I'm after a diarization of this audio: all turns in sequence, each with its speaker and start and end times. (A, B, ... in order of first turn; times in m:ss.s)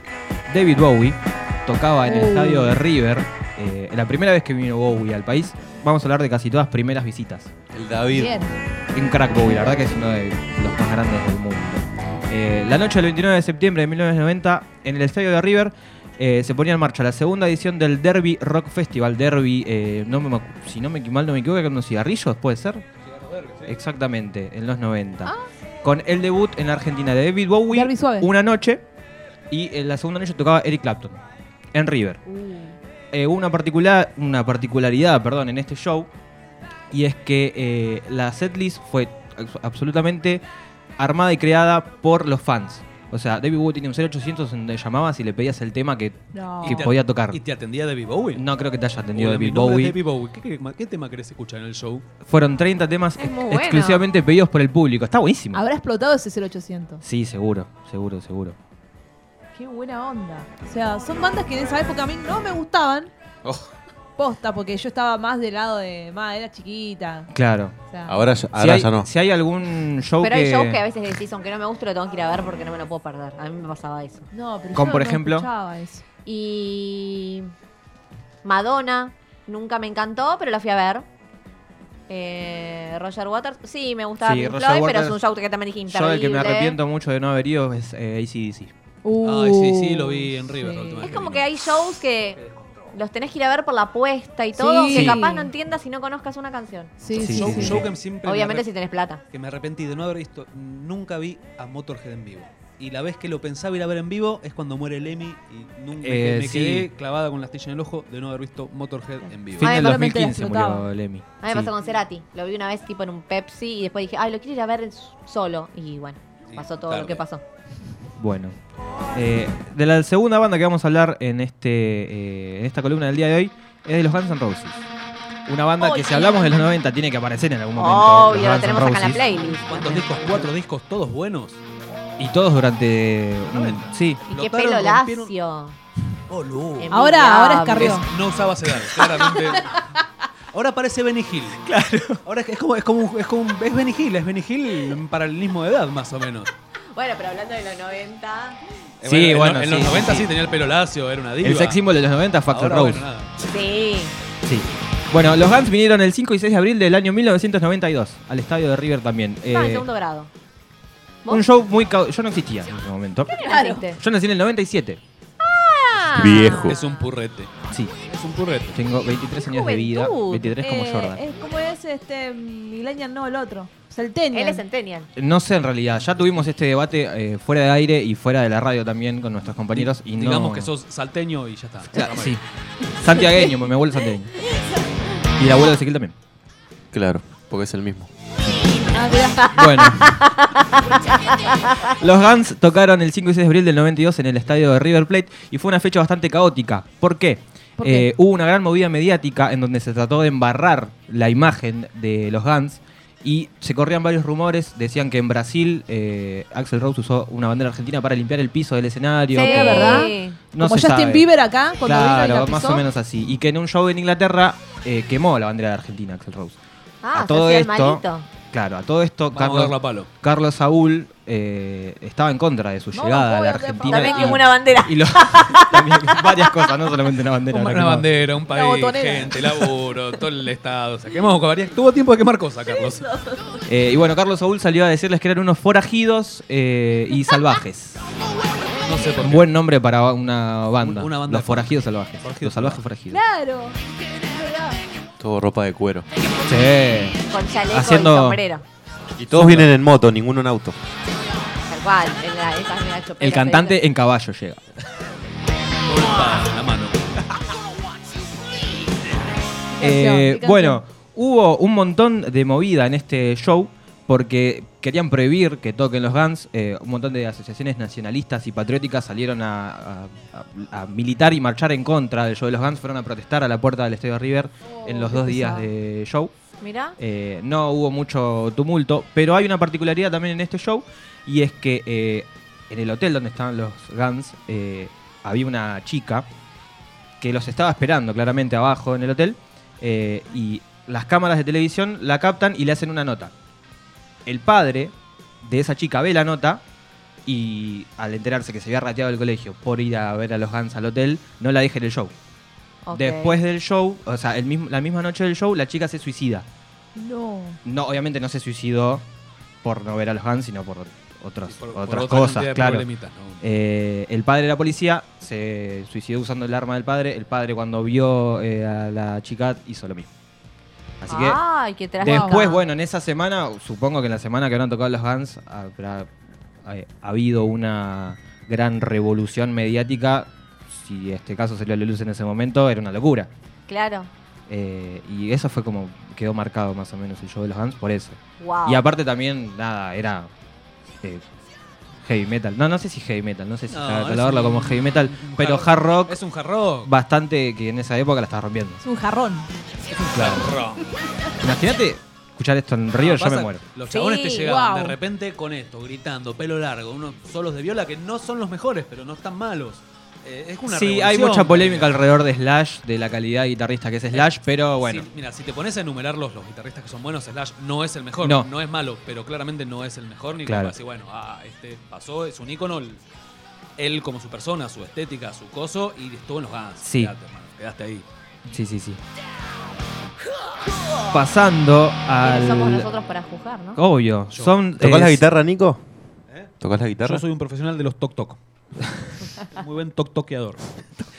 0:00.5-0:07.5 A
0:02.0-0:02.8 B
0:07.7-0:08.4 C
0:08.1-0:08.5 B
0:08.9-0:22.8 A
0:23.1-0:23.7 D
0:23.6-0:28.8 A
0:27.7-0:28.3 B
0:29.5-0:31.2 A
0:31.7-0:32.2 A
0:32.3-0:32.8 E
0:33.1-0:36.1 A
0:36.9-0:40.4 A
0:41.0-0:47.4 A
0:46.3-0:46.8 B
0:46.6-0:48.4 D
0:48.3-0:50.0 A
0:49.1-0:52.0 D
0:52.2-0:55.6 A
0:53.2-0:54.1 E
0:55.5-0:57.0 B
0:57.0-0:58.6 A
0:59.6-1:03.1 B
1:03.4-1:03.7 C
1:04.2-1:07.3 B
1:07.3-1:07.8 A
1:07.9-1:08.2 B
1:08.1-1:09.1 C
1:08.5-1:10.8 A
1:10.2-1:14.3 E
1:14.3-1:16.0 B
1:14.7-1:15.5 A
1:16.2-1:17.5 E
1:18.4-1:21.1 E
1:22.1-1:26.8 E
1:24.2-1:25.2 A
1:25.9-1:28.7 A
1:29.0-1:31.1 B
1:29.2-1:31.5 D
1:31.0-1:32.4 E
1:32.9-1:36.9 E
1:34.5-1:35.5 B
1:34.9-1:35.2 A
1:37.0-1:37.8 B
1:37.0-1:38.6 D
1:37.1-1:37.9 A
1:38.2-1:39.2 E
1:39.3-1:49.8 D
1:46.0-1:46.9 A
1:49.6-1:51.7 A
1:49.6-1:50.1 E
1:49.7-1:50.9 B
1:51.4-1:57.4 E
1:56.5-1:57.2 D
1:58.2-1:58.6 A
1:59.1-2:04.8 A
2:05.5-2:09.3 A
2:05.8-2:06.3 E
2:06.1-2:06.6 B
2:07.8-2:10.0 E
2:09.7-2:11.6 D
2:12.2-2:14.2 A
2:13.4-2:15.3 D
2:14.3-2:15.8 E
2:16.3-2:16.9 D
2:16.8-2:18.0 E
2:16.9-2:18.1 B
2:17.8-2:19.8 D
2:20.5-2:21.6 D
2:21.6-2:22.2 A
2:22.2-2:26.5 D
2:26.9-2:28.6 E
2:29.0-2:31.8 D
2:29.0-2:30.3 A
2:31.4-2:33.1 A
2:32.5-2:33.3 D
2:33.4-2:34.1 E
2:34.4-2:39.9 A
2:39.4-2:40.3 E
2:41.3-2:43.3 A
2:43.3-2:43.9 E
2:43.4-2:44.0 B
2:44.0-2:45.0 A
2:45.4-2:46.8 E
2:46.2-2:46.8 C
2:46.6-2:47.5 D
2:48.1-2:48.8 D
2:48.7-2:51.2 A
2:49.4-2:50.6 E
2:50.6-2:54.6 B
2:54.3-2:55.1 E
2:55.2-3:00.7 A
2:59.7-3:02.4 D
3:01.9-3:02.4 A
3:02.9-3:04.3 A
3:05.4-3:06.1 A
3:06.9-3:08.1 C
3:08.9-3:09.4 B
3:09.3-3:11.9 E
3:09.6-3:10.0 A
3:12.0-3:31.3 A
3:17.8-3:18.1 B
3:29.3-3:30.4 E
3:29.4-3:32.9 B
3:31.8-3:36.6 A
3:37.0-3:38.3 E
3:37.1-3:48.1 A
3:39.3-3:40.1 D
3:42.9-3:44.4 B
3:43.8-3:46.6 E
3:47.5-3:53.1 D
3:48.4-3:49.7 B
3:53.7-3:58.0 A
3:58.8-3:59.5 D
3:59.2-4:03.2 A
4:00.8-4:02.8 D
4:03.1-4:04.8 B
4:05.2-4:06.1 C
4:06.4-4:07.2 A
4:07.3-4:08.6 E
4:07.7-4:08.4 A
4:09.2-4:10.8 C
4:09.3-4:09.8 A
4:11.6-4:13.8 E
4:13.2-4:14.6 A
4:15.9-4:17.1 D
4:19.7-4:20.8 B
4:19.8-4:36.3 A
4:34.8-4:35.7 B
4:36.6-4:37.0 E
4:37.0-4:46.3 A
4:47.2-4:53.3 A
4:54.3-4:56.6 A
4:57.3-5:02.1 A
5:02.8-5:03.4 E
5:02.9-5:06.4 A
5:07.0-5:07.6 B
5:07.6-5:09.0 A
5:09.6-5:12.8 A
5:11.5-5:13.4 D
5:13.4-5:20.1 A
5:21.0-5:21.4 A
5:21.1-5:22.6 E
5:22.0-5:22.5 B
5:22.0-5:26.1 A
5:26.6-5:33.3 A
5:33.7-5:34.1 E
5:34.5-5:40.3 A
5:38.4-5:38.9 E
5:42.1-5:46.2 A
5:43.7-5:46.9 D
5:46.8-5:48.8 A
5:48.8-5:49.5 B
5:50.0-5:50.8 D
5:50.1-5:50.5 A
5:51.4-5:53.6 A
5:52.9-6:02.0 D
5:53.9-5:54.3 E
5:54.1-5:55.0 B
6:00.7-6:05.1 A
6:04.1-6:13.0 D
6:08.2-6:08.5 A
6:10.4-6:10.7 A
6:13.8-6:18.0 D
6:16.8-6:17.1 A
6:18.5-6:19.0 A
6:21.1-6:22.9 A
6:22.2-6:23.8 E
6:23.8-6:25.2 A
6:24.3-6:24.6 D
6:24.8-6:25.8 C
6:26.3-6:28.4 D
6:26.6-6:27.2 C
6:29.4-6:30.7 D